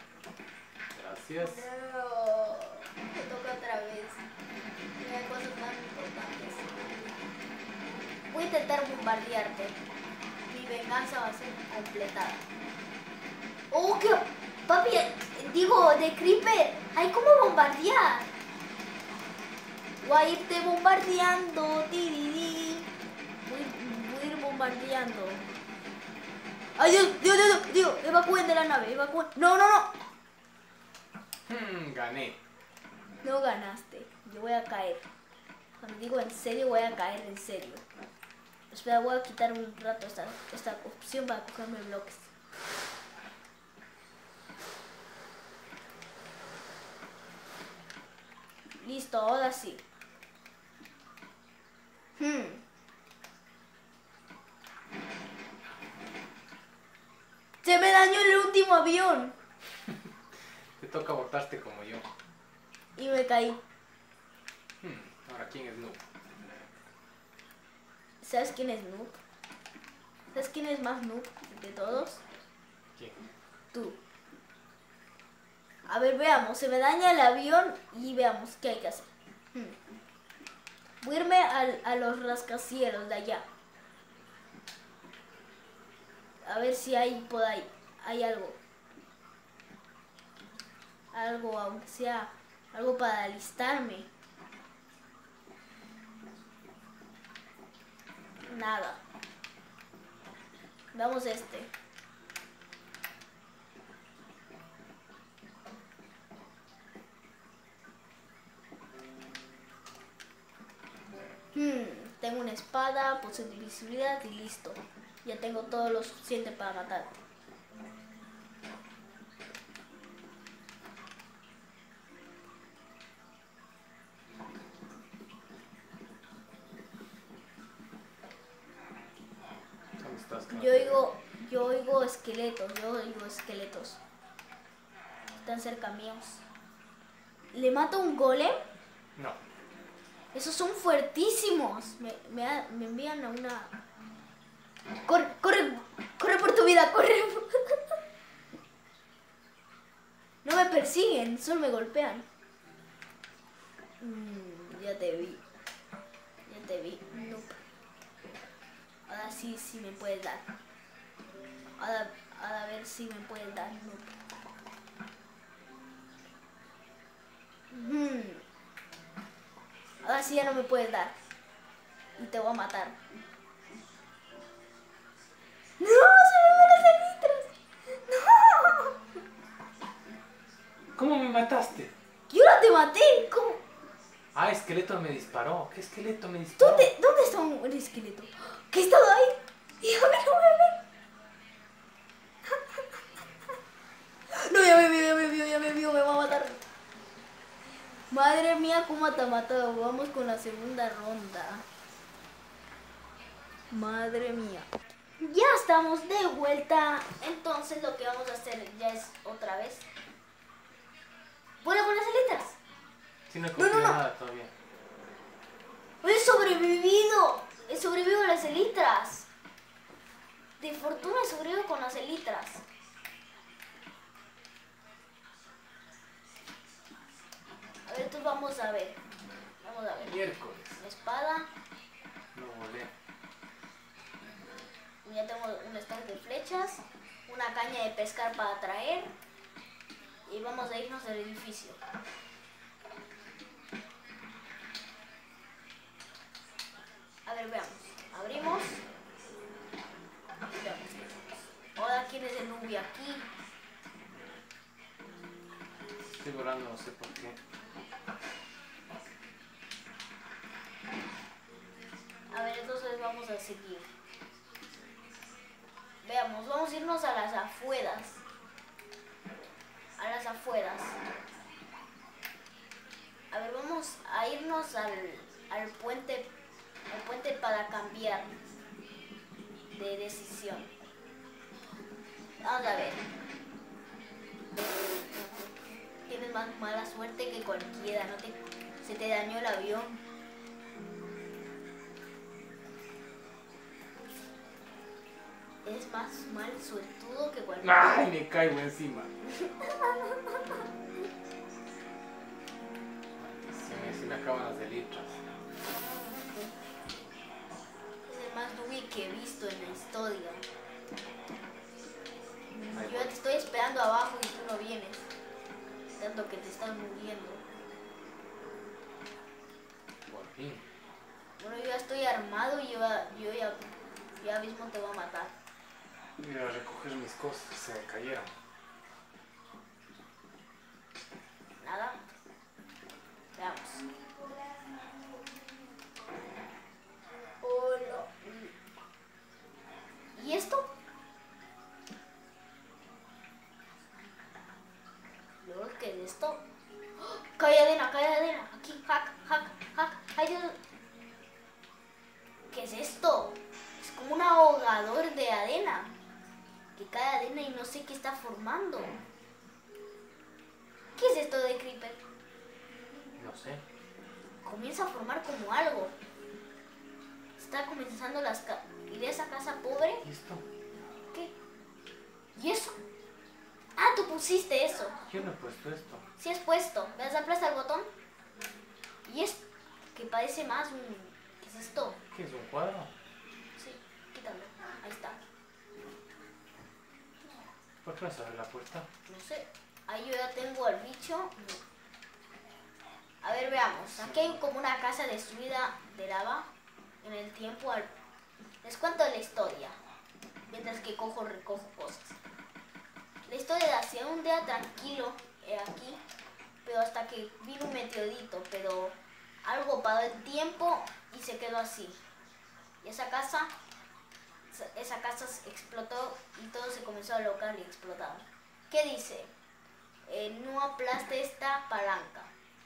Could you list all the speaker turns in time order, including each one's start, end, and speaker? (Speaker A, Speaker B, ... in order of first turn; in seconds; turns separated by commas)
Speaker A: 0.9-1.7, Speaker B: 1.4-4.2, Speaker B: 5.0-6.7, Speaker B: 8.3-9.8, Speaker B: 10.5-12.4, Speaker B: 13.7-18.3, Speaker B: 20.0-22.9, Speaker B: 23.4-25.4, Speaker B: 26.8-29.9, Speaker A: 31.4-32.4, Speaker B: 33.2-35.0, Speaker B: 35.8-37.8, Speaker B: 38.7-42.3, Speaker B: 48.8-49.8, Speaker B: 52.2-52.6, Speaker B: 57.6-59.4, Speaker A: 60.8-62.1, Speaker B: 63.0-63.6, Speaker A: 64.8-66.0, Speaker B: 68.2-69.2, Speaker B: 70.3-72.2, Speaker B: 73.7-74.0, Speaker B: 75.8-79.8, Speaker B: 81.0-83.4, Speaker B: 86.4-88.6, Speaker B: 91.1-94.1, Speaker B: 98.4-99.0, Speaker B: 100.9-101.7, Speaker B: 111.5-117.2, Speaker A: 130.0-131.0, Speaker B: 130.5-134.0, Speaker B: 135.3-136.4, Speaker B: 137.5-138.6, Speaker B: 140.3-143.7, Speaker B: 145.1-147.9, Speaker B: 150.4-152.2, Speaker B: 154.0-155.4, Speaker B: 156.5-157.6, Speaker B: 159.1-160.4, Speaker B: 161.8-164.1, Speaker B: 167.7-168.4, Speaker B: 170.0-171.1, Speaker B: 172.2-172.9, Speaker B: 175.8-177.5, Speaker B: 178.0-178.9, Speaker A: 180.9-181.9, Speaker B: 182.3-183.6, Speaker A: 184.3-186.9, Speaker B: 186.6-190.8, Speaker B: 194.3-196.6, Speaker B: 198.1-201.6, Speaker B: 203.7-204.7, Speaker B: 205.2-209.8, Speaker B: 211.6-212.6, Speaker A: 213.3-214.5, Speaker B: 213.6-214.0, Speaker B: 216.0-219.3, Speaker B: 220.6-222.6, Speaker B: 227.8-229.0, Speaker B: 229.6-230.2, Speaker A: 230.0-230.8, Speaker B: 230.8-231.5, Speaker A: 232.3-232.9, Speaker B: 235.0-239.1, Speaker B: 240.3-241.8, Speaker B: 247.2-248.8, Speaker B: 250.4-253.3, Speaker A: 256.2-257.4, Speaker B: 262.3-263.9, Speaker B: 266.0-268.2, Speaker B: 270.0-271.0, Speaker B: 273.3-276.3, Speaker B: 276.9-278.3, Speaker B: 279.7-280.7, Speaker B: 282.4-283.0, Speaker B: 286.1-290.0, Speaker B: 295.6-297.8, Speaker A: 297.6-299.1, Speaker B: 299.4-300.6, Speaker A: 303.2-305.2, Speaker B: 308.1-310.4, Speaker B: 312.5-315.0, Speaker A: 312.7-313.1, Speaker B: 316.0-317.4, Speaker A: 320.1-320.6, Speaker B: 321.4-323.6, Speaker B: 324.2-325.3, Speaker A: 326.2-328.3, Speaker B: 331.6-332.0, Speaker B: 333.3-333.9, Speaker B: 337.4-338.5, Speaker B: 340.1-340.7, Speaker B: 345.4-346.4, Speaker B: 347.0-350.6, Speaker B: 352.5-355.9, Speaker B: 356.7-359.0, Speaker B: 360.9-362.0, Speaker A: 363.2-363.6, Speaker B: 364.4-365.9, Speaker B: 367.4-370.0, Speaker A: 370.0-370.4, Speaker B: 372.3-372.8, Speaker B: 373.8-375.0, Speaker A: 375.0-376.0, Speaker B: 376.2-377.9, Speaker B: 379.1-379.4, Speaker B: 379.9-382.0, Speaker A: 382.1-382.9, Speaker B: 383.6-385.2, Speaker A: 387.8-388.9, Speaker B: 389.1-391.6, Speaker B: 393.2-396.5, Speaker A: 394.0-394.4, Speaker B: 397.0-397.9, Speaker B: 398.6-399.8, Speaker B: 400.5-402.2, Speaker B: 403.3-406.0, Speaker B: 406.6-412.0, Speaker B: 412.8-413.5, Speaker B: 414.5-419.3, Speaker B: 420.1-422.3